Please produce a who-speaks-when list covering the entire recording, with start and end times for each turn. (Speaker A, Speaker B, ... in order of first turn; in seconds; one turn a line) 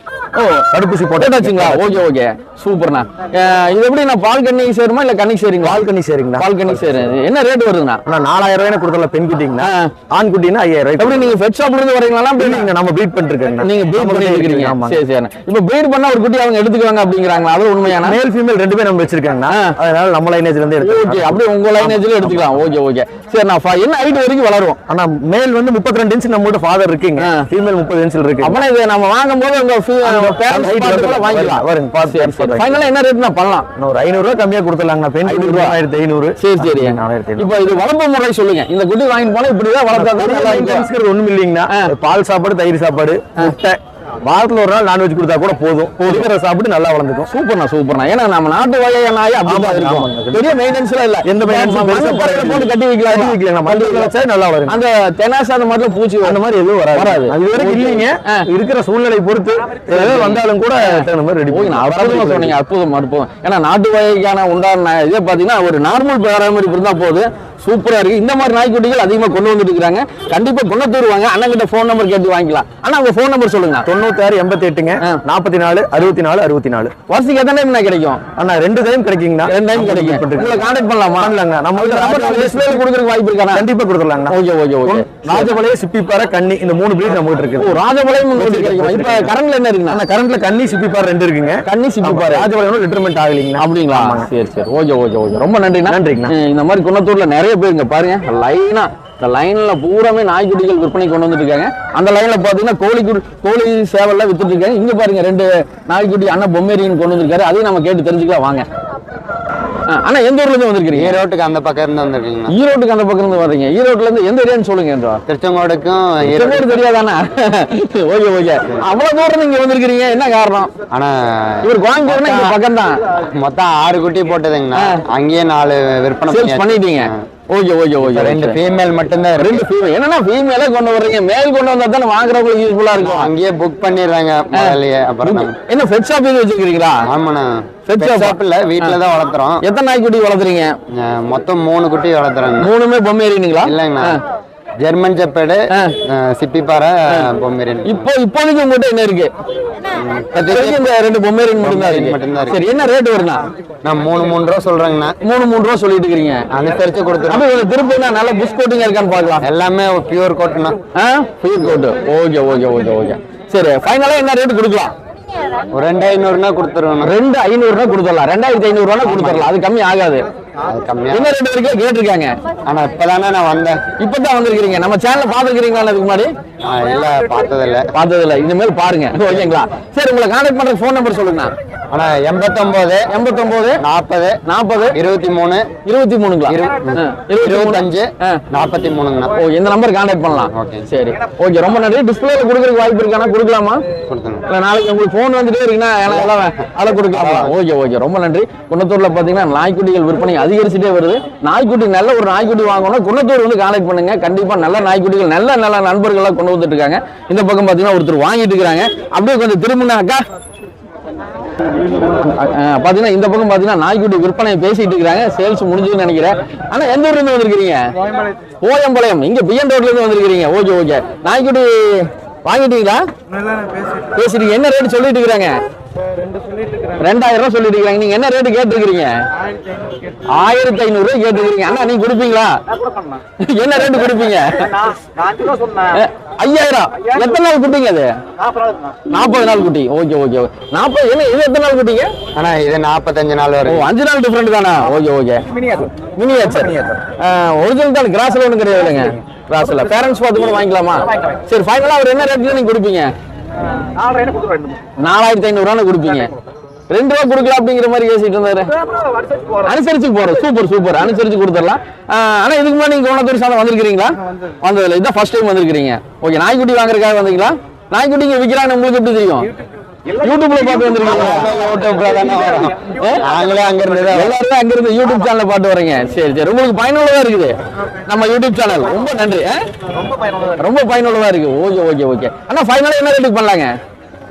Speaker A: 0.3-0.6
Speaker B: 0.7-2.0
Speaker A: 1.2-5.8
Speaker B: 5.6-7.1
Speaker A: 6.4-8.0
Speaker B: 8.1-11.4
Speaker A: 9.6-9.9
Speaker A: 11.0-12.7
Speaker B: 12.4-15.0
Speaker A: 13.6-18.1
Speaker B: 17.8-22.4
Speaker A: 19.5-19.7
Speaker A: 20.8-24.8
Speaker B: 24.9-28.6
Speaker A: 28.4-33.7
Speaker B: 30.0-32.8
Speaker B: 33.8-37.5
Speaker A: 35.2-35.8
Speaker A: 36.4-40.9
Speaker B: 39.9-47.3
Speaker A: 46.0-46.3
Speaker A: 47.3-54.1
Speaker B: 49.4-50.5
Speaker B: 51.2-54.8
Speaker A: 54.7-56.4
Speaker B: 56.2-62.5
Speaker A: 56.9-58.5
Speaker A: 59.9-73.8
Speaker B: 73.8-76.9
Speaker A: 77.1-78.2
Speaker B: 78.3-80.7
Speaker A: 79.5-83.7
Speaker B: 81.2-82.9
Speaker B: 83.5-87.8
Speaker A: 84.3-85.5
Speaker A: 87.6-90.0
Speaker B: 88.3-89.3
Speaker B: 89.9-94.3
Speaker A: 91.7-92.5
Speaker A: 93.6-108.6
Speaker B: 95.9-96.3
Speaker A: 109.9-111.2
Speaker C: 110.9-112.5
Speaker A: 112.5-115.2
Speaker C: 115.3-116.7
Speaker A: 116.3-120.7
Speaker C: 120.9-122.5
Speaker A: 121.6-123.0
Speaker C: 123.3-127.1
Speaker A: 126.3-128.6
Speaker C: 128.0-129.7
Speaker A: 129.4-133.3
Speaker C: 132.9-135.5
Speaker A: 134.5-137.0
Speaker C: 137.1-139.6
Speaker A: 137.9-139.0
Speaker A: 139.6-140.7
Speaker C: 140.9-142.7
Speaker A: 142.6-144.2
Speaker C: 143.6-144.2
Speaker C: 144.8-148.1
Speaker A: 147.8-149.3
Speaker C: 150.0-150.9
Speaker A: 150.3-153.4
Speaker C: 151.6-152.6
Speaker C: 153.8-155.1
Speaker A: 155.2-156.4
Speaker C: 156.5-157.5
Speaker A: 157.3-159.4
Speaker C: 159.4-160.8
Speaker A: 160.9-164.9
Speaker C: 165.7-167.1
Speaker A: 167.0-170.2
Speaker C: 169.0-169.4
Speaker C: 170.7-171.3
Speaker A: 171.1-172.3
Speaker C: 172.7-173.8
Speaker A: 174.0-176.3
Speaker C: 176.7-177.8
Speaker A: 177.9-181.5
Speaker C: 181.9-183.1
Speaker A: 183.1-183.8
Speaker C: 183.8-184.4
Speaker A: 184.4-184.9
Speaker C: 184.9-185.7
Speaker A: 185.8-188.4
Speaker C: 186.5-189.3
Speaker A: 189.3-193.8
Speaker C: 190.5-190.9
Speaker C: 194.1-194.4
Speaker A: 194.5-210.2
Speaker C: 197.1-197.5
Speaker A: 212.2-217.8
Speaker A: 218.6-223.0
Speaker A: 224.1-225.5
Speaker A: 227.0-229.1
Speaker A: 230.3-232.5
Speaker A: 233.4-234.8
Speaker A: 235.9-238.1
Speaker A: 239.1-242.1
Speaker C: 242.3-243.9
Speaker A: 243.6-253.1
Speaker A: 255.0-256.3
Speaker A: 256.9-258.7
Speaker A: 259.6-269.5
Speaker A: 270.1-271.5
Speaker C: 271.0-274.3
Speaker A: 274.1-277.5
Speaker A: 278.1-279.6
Speaker A: 280.6-283.7